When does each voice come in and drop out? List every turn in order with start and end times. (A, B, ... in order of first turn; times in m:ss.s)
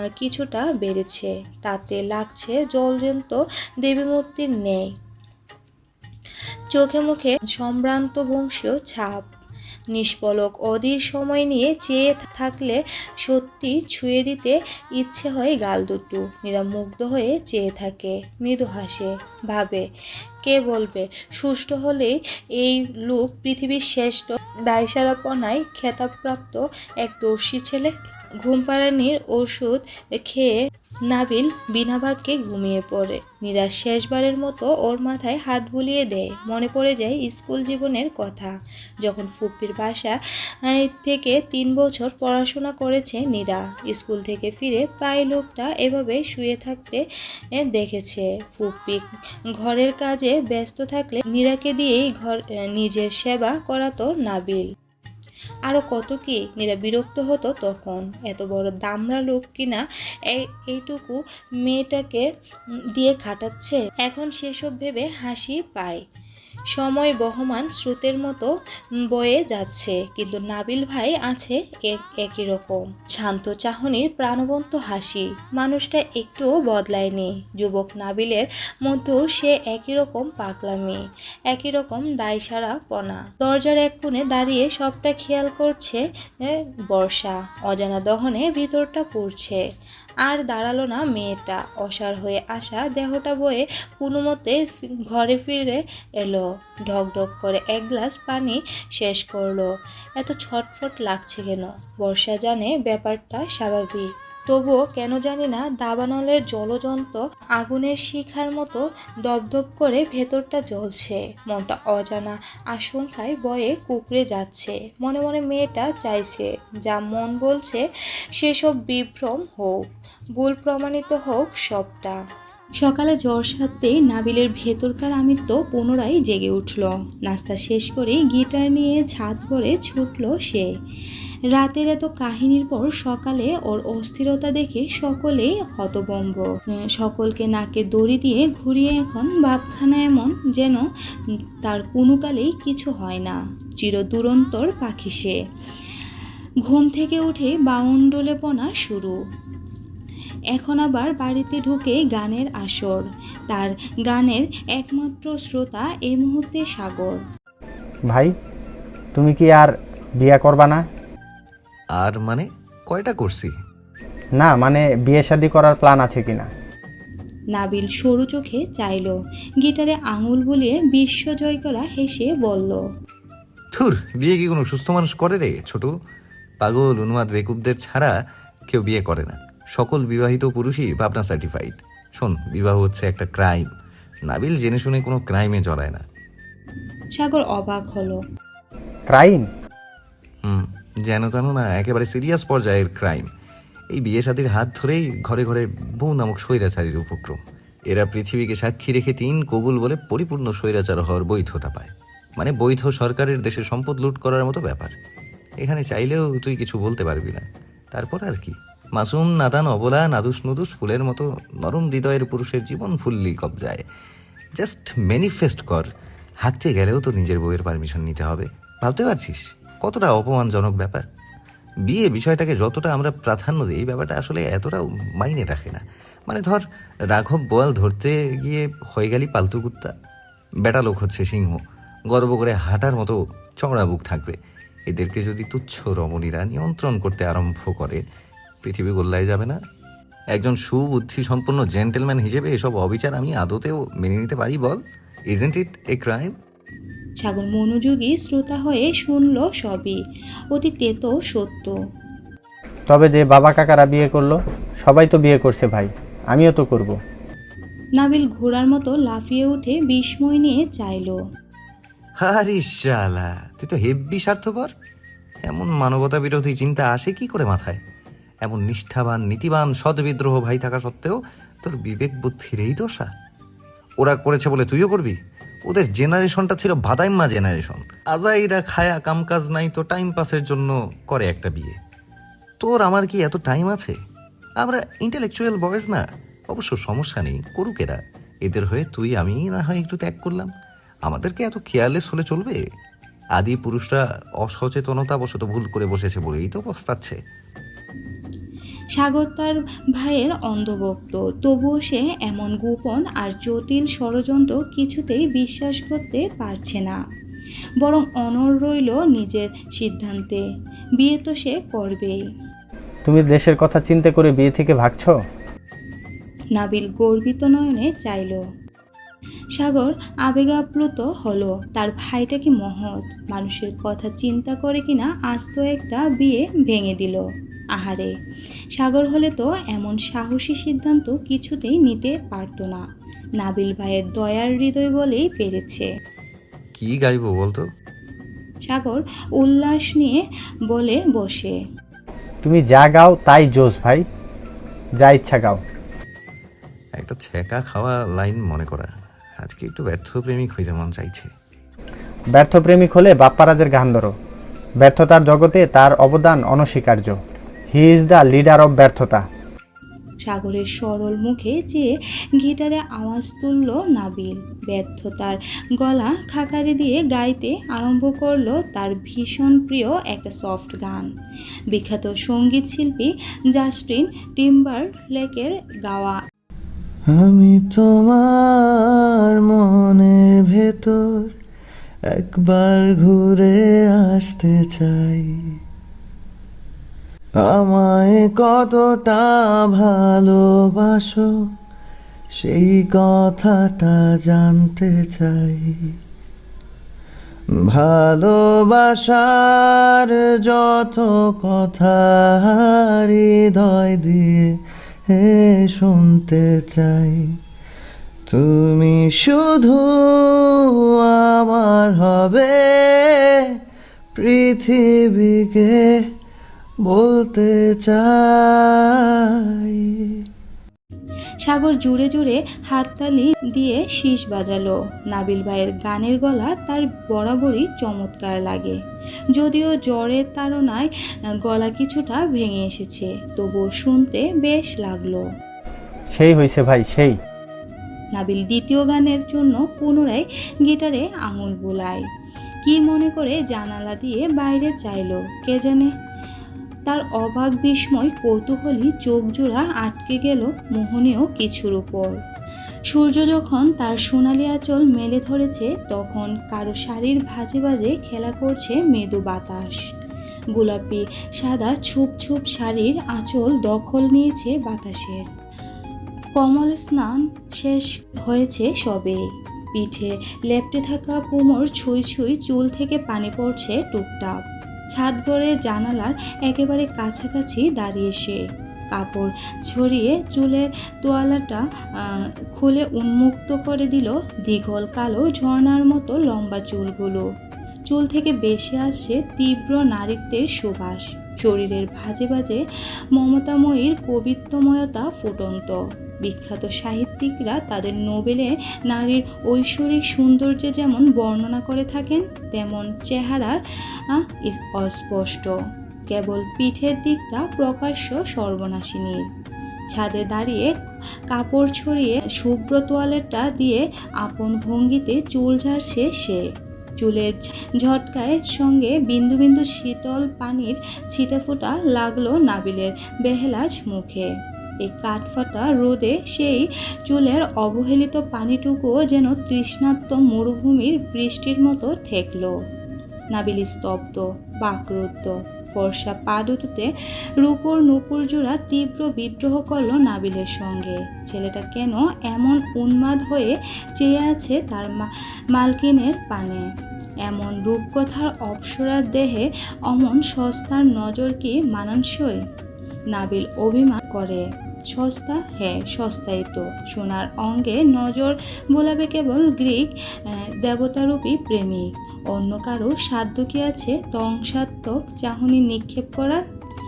0:00.2-0:04.9 A
0:06.7-0:09.2 A
0:09.9-0:19.8 A
0:20.4-0:27.9 A
0:28.4-0:30.5 A
0:31.1-0:40.2 A
0:40.7-0:47.0 A
0:47.7-0:49.0 A
0:49.6-0:54.7 A
0:55.7-1:02.2 A
1:03.0-1:06.0 A
1:06.8-1:08.5 A
1:09.1-1:21.0 A
1:21.5-1:26.0 A
1:26.5-1:29.6 A
1:30.3-1:34.6 A
1:35.1-1:57.8 A
1:58.4-1:59.8 A
2:00.4-2:02.2 A
2:02.8-2:10.7 A
2:11.5-2:20.8 A
2:21.6-2:25.4 A
2:26.6-2:29.2 A
2:30.5-2:37.2 A
2:39.2-2:40.8 B
2:42.0-2:43.5 C
2:44.4-2:46.5 B
2:47.5-2:52.8 A
2:53.8-2:55.9 C
2:56.6-2:58.1 C
2:58.7-3:03.6 C
3:04.3-3:06.0 C
3:07.2-3:08.2 A
3:09.1-3:09.5 B
3:10.4-3:13.3 C
3:13.9-3:17.4 C
3:17.9-3:25.0 C
3:25.6-3:33.8 C
3:34.6-3:35.9 C
3:36.4-3:41.1 C
3:41.9-3:49.9 C
3:50.6-3:54.4 C
3:54.9-3:58.0 C
3:58.6-3:59.6 C
4:00.3-4:06.3 C
4:07.2-4:10.0 A
4:10.5-4:11.7 A
4:12.9-4:17.0 B
4:18.0-4:21.2 A
4:22.2-4:24.7 C
4:25.4-4:27.8 C
4:28.4-4:33.1 C
4:34.0-4:41.8 C
4:42.6-4:44.0 C
4:44.6-4:50.5 C
4:51.1-4:52.6 C
4:53.4-4:57.2 C
4:59.0-5:07.0 A
5:07.8-5:10.4 A
5:11.0-5:12.2 A
5:13.1-5:15.2 B
5:16.6-5:18.4 A
5:19.6-5:27.2 A
5:27.8-5:28.1 A
5:28.8-5:32.8 A
5:33.4-5:35.9 A
5:36.8-5:37.7 C
5:38.7-5:40.2 A
5:40.7-5:41.5 A
5:42.4-5:44.0 B
5:45.0-5:45.6 B
5:47.0-5:48.9 C
5:49.4-5:51.3 C
5:52.3-5:54.1 B
5:54.8-5:57.2 B
5:57.7-5:59.2 B
6:00.2-6:11.1 A
6:11.7-6:16.2 A
6:17.1-6:21.3 D
6:22.1-6:25.3 D
6:27.4-6:31.4 D
6:32.4-6:35.8 D
6:37.6-6:44.6 D
6:45.1-6:47.3 D
6:48.3-6:53.2 D
6:54.2-6:55.9 D
6:56.8-6:59.9 D
7:01.4-7:08.8 A
7:09.4-7:10.9 A
7:11.5-7:15.2 A
7:16.1-7:17.2 B
7:18.1-7:22.0 A
7:22.6-7:25.9 A
7:26.9-7:32.2 A
7:32.9-7:39.8 A
7:40.6-7:45.2 A
7:46.4-7:49.2 A
7:49.7-7:54.4 A
7:54.9-7:58.4 A
7:58.9-8:07.2 A
8:07.9-8:12.6 A
8:13.2-8:23.6 A
8:24.1-8:25.5 A
8:26.1-8:29.2 A
8:29.9-8:30.7 A
8:31.3-8:36.4 A
8:37.0-8:44.3 A
8:44.8-8:52.5 A
8:53.3-8:56.9 A
8:57.4-9:06.6 A
9:07.3-9:12.4 A
9:13.1-9:19.9 A
9:20.6-9:26.4 A